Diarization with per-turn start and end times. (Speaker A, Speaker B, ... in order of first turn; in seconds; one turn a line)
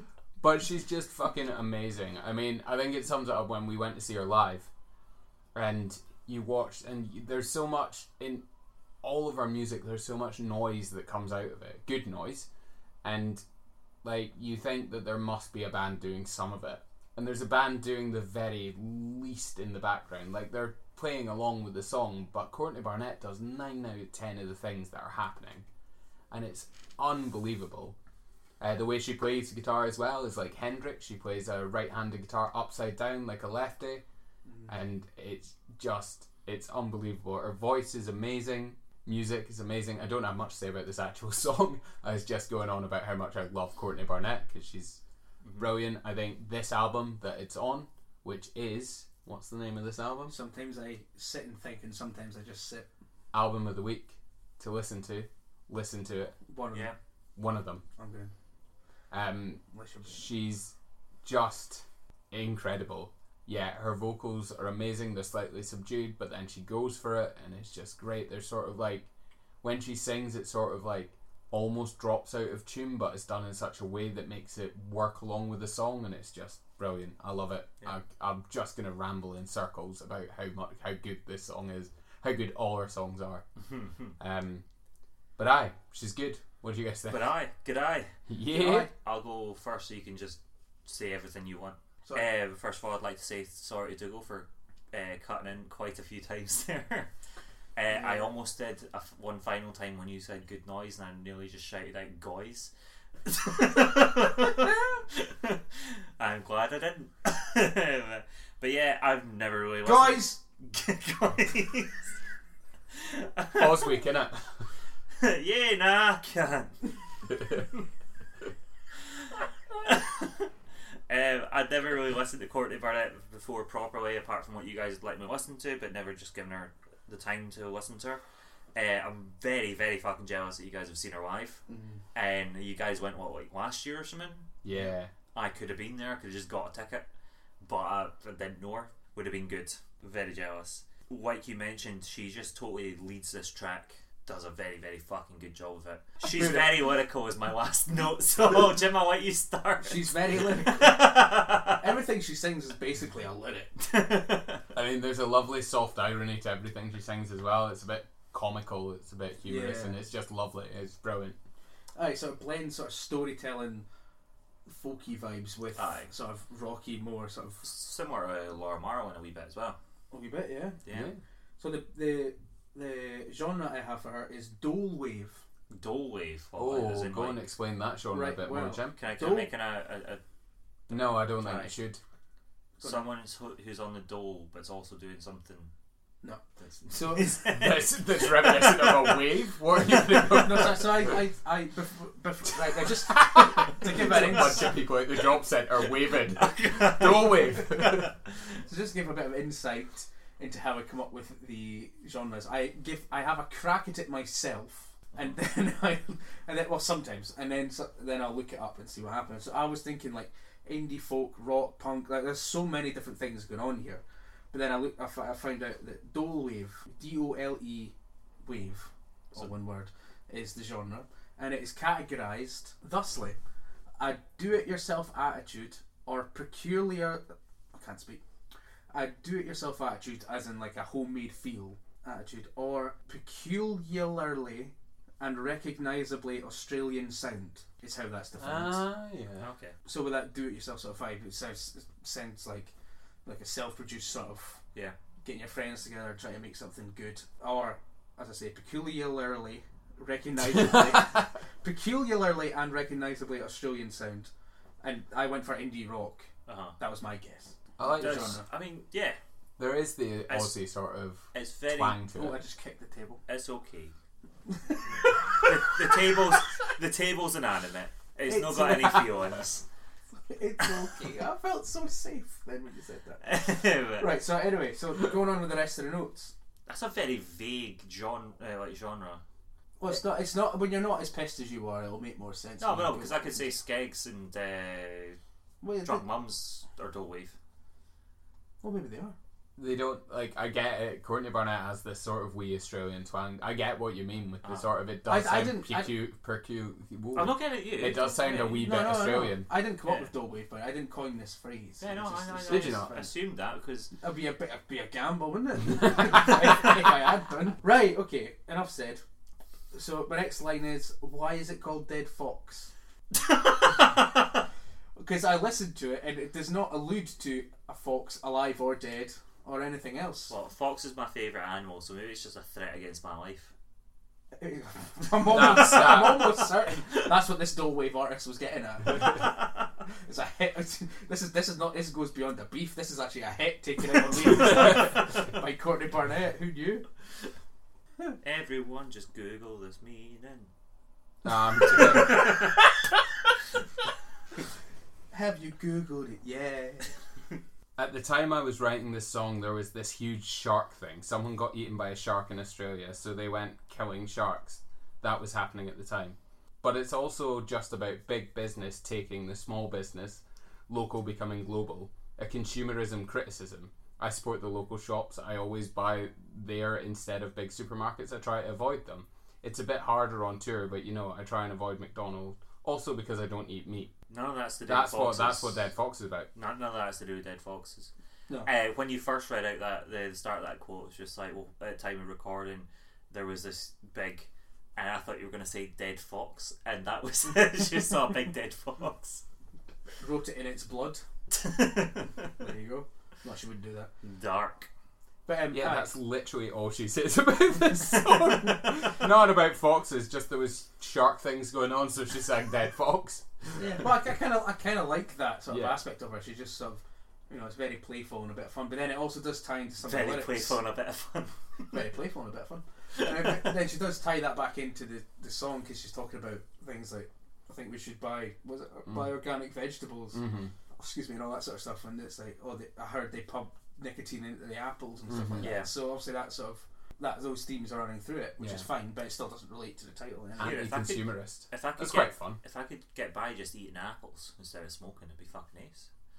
Speaker A: 0.4-4.7
Speaker A: 5.5-8.4
Speaker A: 9.0-12.5
Speaker A: 13.0-13.4
Speaker A: 14.0-25.6
Speaker A: 26.3-27.9
Speaker A: 28.6-34.0
Speaker B: 34.5-34.7
Speaker A: 34.7-45.0
Speaker C: 45.4-45.7
Speaker A: 45.5-50.3
Speaker B: 50.3-52.9
Speaker A: 53.3-56.4
Speaker B: 56.5-56.9
Speaker A: 57.4-57.8
Speaker B: 58.0-58.3
Speaker A: 59.1-69.1
Speaker B: 59.7-60.3
Speaker A: 69.6-83.4
Speaker C: 83.7-84.1
Speaker A: 84.2-84.6
Speaker A: 85.4-87.4
Speaker C: 87.1-88.1
Speaker A: 88.3-88.9
Speaker B: 88.5-88.9
Speaker C: 88.9-97.1
Speaker C: 97.8-102.7
Speaker B: 97.9-98.3
Speaker C: 103.2-112.1
Speaker B: 109.8-110.4
Speaker C: 112.9-114.0
Speaker A: 113.5-114.7
Speaker C: 115.2-116.9
Speaker C: 119.8-120.5
Speaker C: 121.1-128.2
Speaker C: 128.7-131.6
Speaker B: 131.7-132.0
Speaker C: 132.1-134.5
Speaker A: 134.6-135.1
Speaker C: 135.3-137.1
Speaker C: 137.6-151.9
Speaker B: 149.8-151.1
Speaker B: 151.7-153.8
Speaker C: 153.9-154.6
Speaker A: 154.7-161.4
Speaker B: 159.4-160.0
Speaker B: 161.9-163.8
Speaker B: 164.7-167.6
Speaker C: 165.8-166.1
Speaker C: 167.6-169.8
Speaker B: 170.1-170.8
Speaker C: 170.8-171.1
Speaker A: 170.9-171.2
Speaker B: 171.6-175.4
Speaker C: 175.7-177.4
Speaker A: 176.6-178.9
Speaker B: 178.1-179.5
Speaker C: 178.9-180.2
Speaker A: 180.9-182.0
Speaker B: 181.4-181.7
Speaker B: 182.8-183.1
Speaker C: 182.8-185.7
Speaker B: 186.2-187.4
Speaker C: 186.6-189.3
Speaker A: 187.5-191.2
Speaker B: 190.1-194.8
Speaker A: 192.7-198.1
Speaker C: 195.9-198.2
Speaker B: 198.7-223.4
Speaker B: 224.0-228.2
Speaker B: 228.9-238.8
Speaker A: 238.4-239.5
Speaker C: 239.4-239.8
Speaker B: 239.8-242.7
Speaker B: 243.2-244.6
Speaker B: 245.2-254.3
Speaker A: 250.5-251.2
Speaker B: 254.8-258.4
Speaker C: 256.5-256.8
Speaker A: 257.8-258.4
Speaker C: 257.8-259.2
Speaker A: 259.6-262.4
Speaker C: 260.3-260.5
Speaker C: 261.3-262.0
Speaker B: 262.1-263.2
Speaker C: 263.3-263.9
Speaker B: 264.4-266.4
Speaker C: 264.9-269.6
Speaker B: 268.2-269.1
Speaker B: 270.1-273.4
Speaker C: 273.2-274.1
Speaker B: 273.9-276.3
Speaker C: 276.7-279.2
Speaker B: 279.8-283.5
Speaker C: 282.6-285.2
Speaker B: 285.6-286.1
Speaker C: 285.8-287.4
Speaker B: 288.6-289.1
Speaker A: 289.6-299.5
Speaker B: 295.1-296.0
Speaker C: 297.1-298.9
Speaker B: 298.5-303.1
Speaker C: 299.8-300.1
Speaker C: 301.8-303.9
Speaker A: 302.4-302.9
Speaker B: 304.0-309.0
Speaker B: 309.7-312.7
Speaker C: 313.1-314.2
Speaker B: 314.9-320.3
Speaker C: 320.3-323.5
Speaker B: 324.4-329.4
Speaker A: 325.2-326.4
Speaker B: 330.0-336.9
Speaker C: 338.2-340.5
Speaker A: 341.2-342.3
Speaker C: 341.6-342.4
Speaker B: 345.1-346.9
Speaker A: 347.8-373.9
Speaker C: 374.1-375.6
Speaker A: 374.6-376.3
Speaker C: 376.3-377.9
Speaker C: 378.4-389.2
Speaker B: 390.0-391.0
Speaker C: 391.3-392.3
Speaker B: 392.4-393.9
Speaker C: 394.0-394.7
Speaker B: 395.2-395.9
Speaker A: 395.5-403.8
Speaker B: 403.5-410.6
Speaker A: 405.5-405.8
Speaker C: 409.8-411.8
Speaker B: 411.7-420.2
Speaker C: 413.0-413.5
Speaker A: 418.9-419.1
Speaker A: 420.1-420.5
Speaker B: 420.8-430.6
Speaker A: 425.1-425.5
Speaker C: 425.4-425.7
Speaker A: 428.4-428.7
Speaker A: 430.4-432.4
Speaker C: 430.4-435.9